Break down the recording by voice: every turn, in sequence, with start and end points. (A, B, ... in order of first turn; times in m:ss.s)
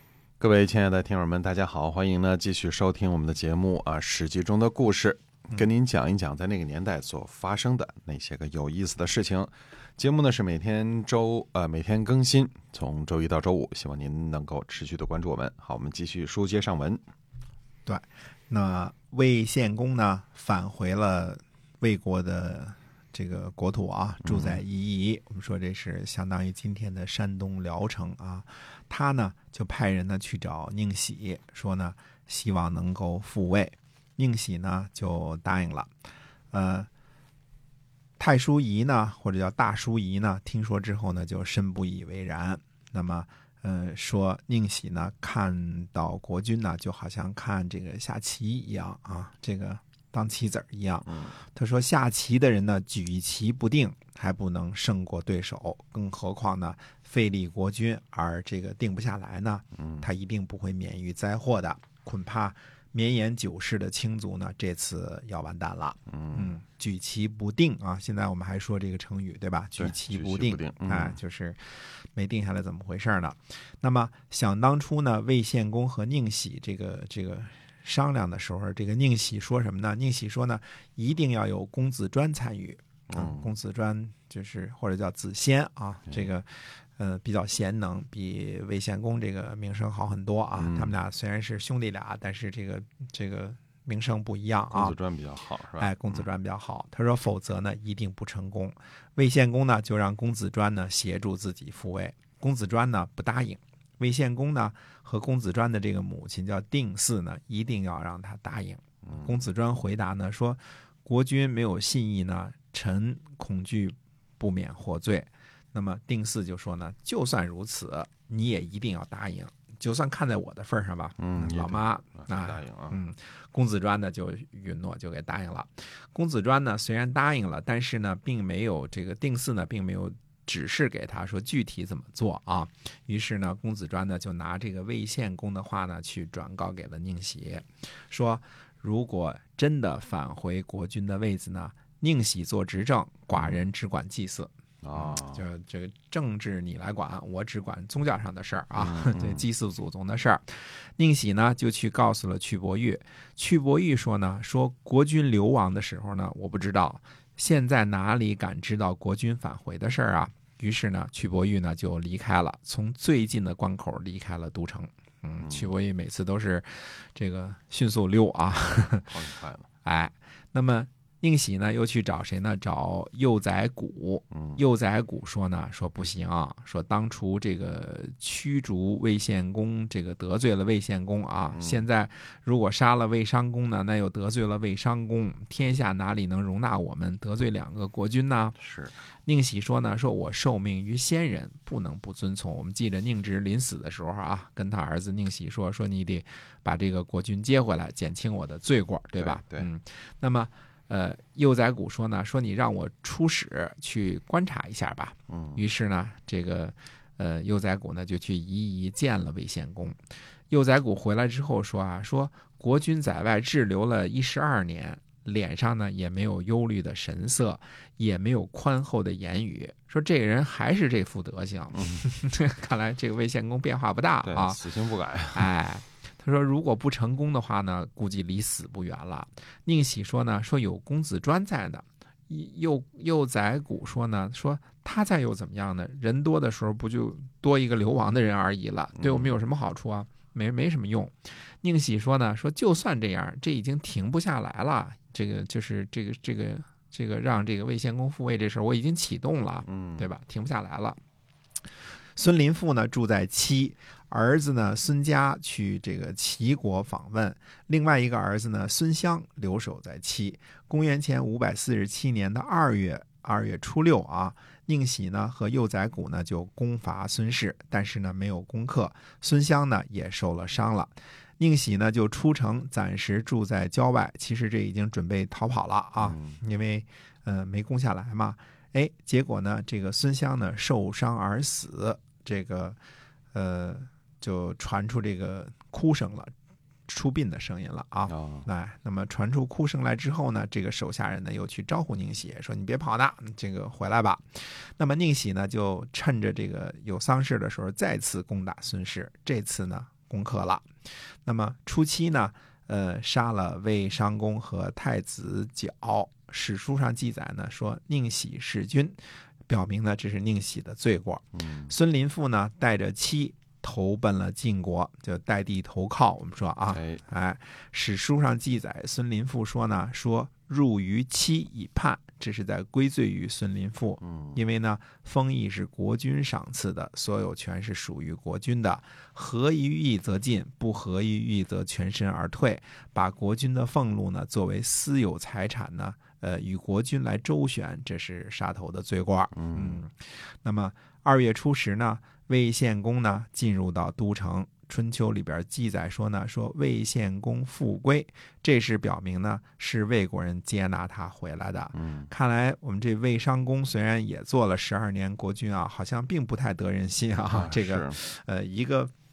0:00.4-0:17.0 A
0:17.9-0:35.9 B
0:24.2-0:24.6 A
0:36.5-0:36.9 B
0:38.2-1:35.0 B
0:51.1-0:51.3 A
0:59.8-1:00.1 A
1:06.1-1:06.6 A
1:09.8-1:11.2 A
1:23.1-1:23.5 A
1:30.6-1:30.9 A
1:34.7-1:36.2 A
1:35.8-2:49.1 B
1:49.0-1:49.4 A
2:01.2-2:03.0 A
2:23.3-2:23.6 A
2:24.8-2:25.4 A
2:28.7-2:29.5 A
2:45.4-2:45.7 A
2:48.8-2:49.7 A
2:49.8-3:08.6 B
2:54.3-2:54.6 A
3:01.5-3:01.9 A
3:08.6-3:08.9 A
3:09.3-3:30.0 B
3:19.2-3:19.7 A
3:25.3-3:25.6 A
3:30.5-3:44.6 B
3:41.8-3:42.0 A
3:44.2-3:45.5 A
3:45.3-4:11.0 B
3:59.0-3:59.4 A
4:09.7-4:10.1 A
4:12.2-4:42.8 B
4:36.0-4:36.4 A
4:43.3-4:46.3 B
4:46.9-5:00.7 B
4:48.1-4:48.5 A
5:01.2-5:58.9 B
5:11.4-5:11.7 A
5:16.7-5:17.0 A
5:24.0-5:24.4 A
5:39.4-5:39.8 A
5:51.7-5:52.1 A
5:57.3-5:58.0 A